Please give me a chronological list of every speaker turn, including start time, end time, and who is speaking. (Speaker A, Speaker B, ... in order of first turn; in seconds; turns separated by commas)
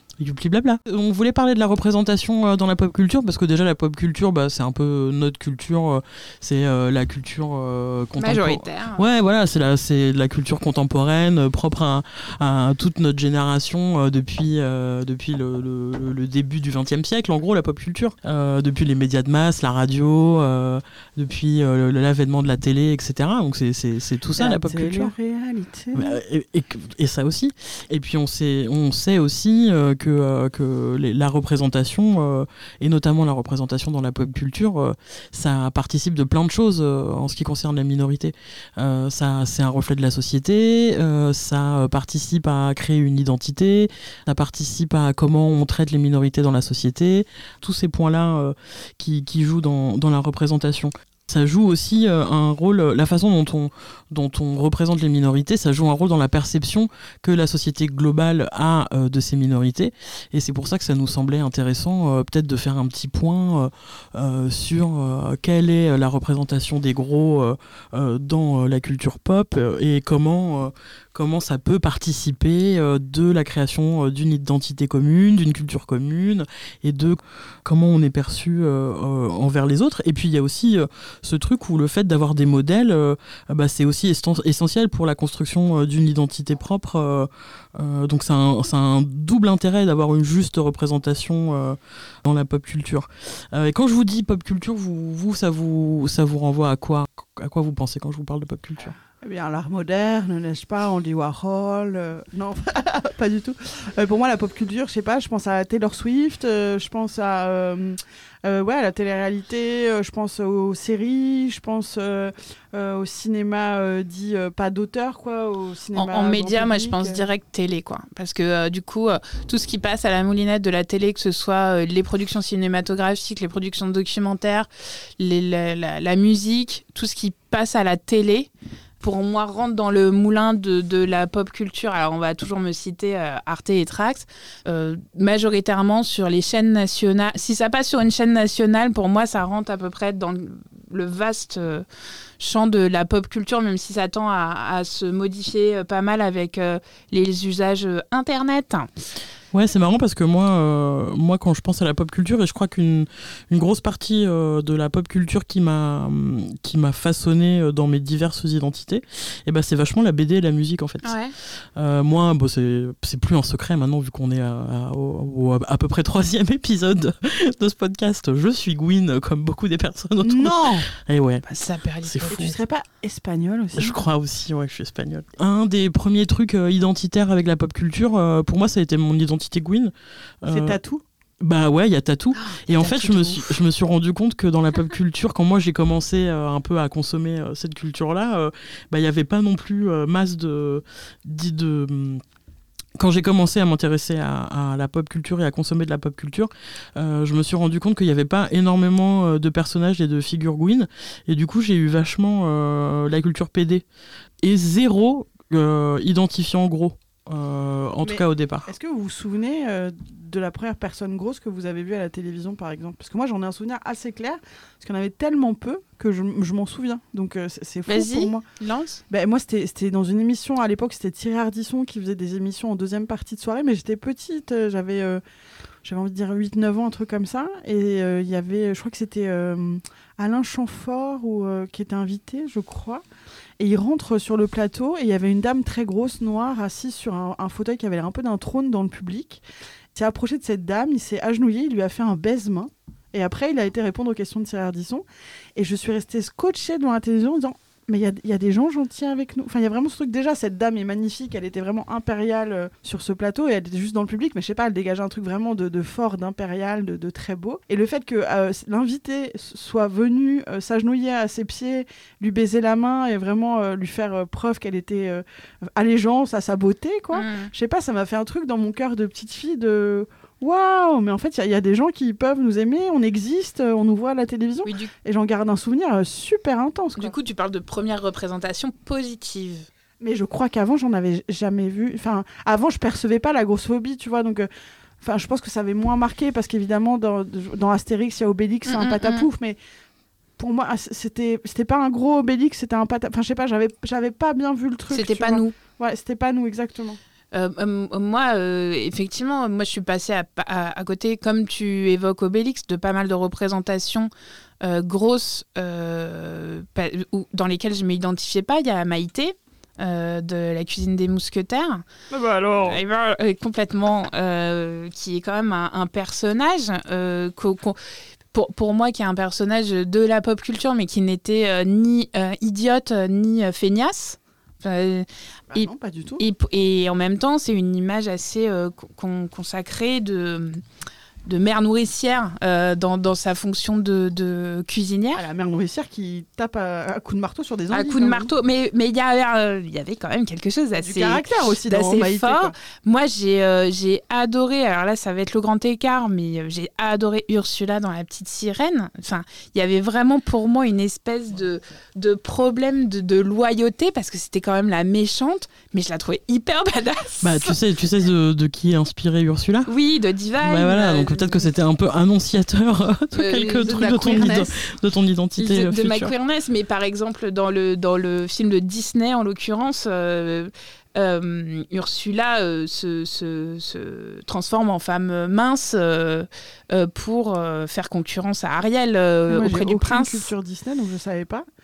Speaker A: 0.2-25.1, Speaker B: 8.2-9.0, Speaker C: 24.4-26.2, Speaker A: 25.9-98.9, Speaker C: 99.0-117.2, Speaker B: 115.9-128.5, Speaker B: 129.0-141.8, Speaker B: 142.4-148.9, Speaker A: 149.5-171.5, Speaker B: 161.0-161.3, Speaker C: 170.2-170.9, Speaker B: 171.5-172.5, Speaker A: 172.0-172.5, Speaker C: 172.3-173.9, Speaker A: 173.7-180.8, Speaker C: 180.5-181.0, Speaker A: 181.4-192.2, Speaker B: 182.3-183.5, Speaker A: 193.0-203.8, Speaker A: 204.4-208.7, Speaker C: 208.0-218.4, Speaker B: 217.9-219.0, Speaker C: 219.1-225.2, Speaker C: 225.8-233.0, Speaker C: 233.6-239.4, Speaker C: 239.9-245.0, Speaker C: 245.6-265.2, Speaker C: 265.8-277.1, Speaker B: 267.1-267.5, Speaker B: 274.6-274.9, Speaker B: 277.0-279.7, Speaker C: 280.0-284.5, Speaker C: 285.0-289.6, Speaker B: 288.6-289.3, Speaker C: 290.4-297.0, Speaker B: 294.9-295.5, Speaker B: 297.3-304.1, Speaker B: 304.6-311.9, Speaker C: 312.1-312.8, Speaker B: 312.6-317.8, Speaker B: 318.3-330.6, Speaker C: 325.5-326.2, Speaker B: 331.2-335.2, Speaker C: 335.1-338.3, Speaker B: 337.7-357.6, Speaker C: 340.8-342.5, Speaker A: 357.2-359.7, Speaker B: 359.7-361.5, Speaker A: 360.4-366.1, Speaker B: 363.1-363.8, Speaker C: 363.6-364.5, Speaker B: 365.4-380.3, Speaker C: 379.3-381.5